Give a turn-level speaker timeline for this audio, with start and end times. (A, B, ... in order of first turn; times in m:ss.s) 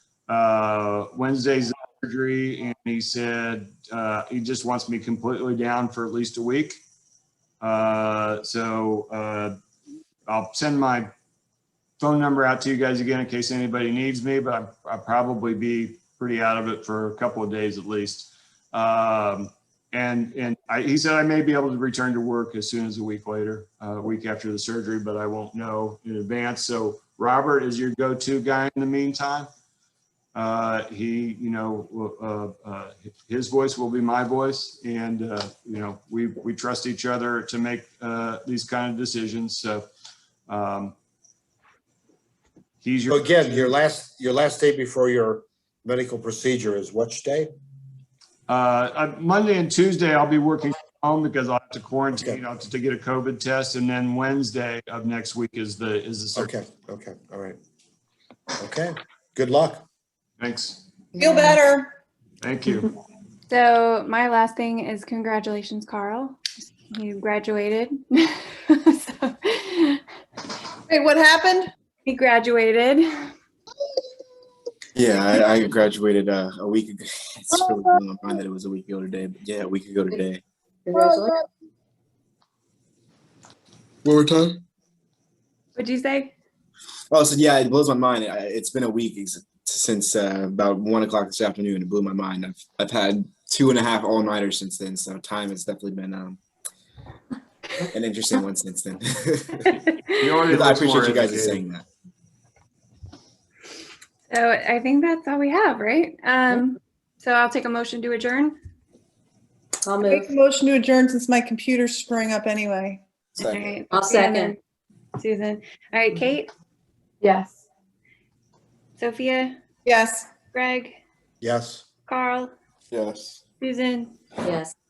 0:00.3-0:06.8 A
0:07.6-0:09.6 A
0:10.3-0:11.1 A
0:12.0-0:29.5 A
0:30.3-0:39.9 A
0:40.5-0:41.0 A
0:42.8-0:43.7 A
0:43.1-0:47.5 B
0:48.5-0:56.5 A
0:56.4-0:57.6 B
0:58.6-0:59.8 B
1:00.4-1:00.8 A
1:01.2-1:01.9 C
1:02.4-1:02.9 A
1:03.5-1:10.0 D
1:10.9-1:11.7 C
1:12.0-1:13.3 D
1:15.0-1:20.4 E
1:20.9-1:21.3 F
1:20.9-1:21.5 C
1:24.0-1:24.6 E
1:25.8-1:26.3 D
1:27.1-1:36.4 E
1:37.9-1:39.8 E
1:40.2-1:41.6 A
1:40.5-1:41.8 E
1:44.3-1:48.6 D
1:49.8-1:50.3 F
1:50.0-1:53.0 C
1:53.4-1:53.8 E
1:53.5-1:54.6 D
1:53.9-1:54.6 F
1:55.2-1:56.5 D
1:57.2-1:57.5 F
1:59.0-1:59.6 D
1:59.8-2:00.3 C
2:00.4-2:00.9 D
2:01.4-2:01.8 B
2:02.1-2:02.5 D
2:02.9-2:03.4 E
2:03.6-2:04.2 D
2:04.4-2:04.7 F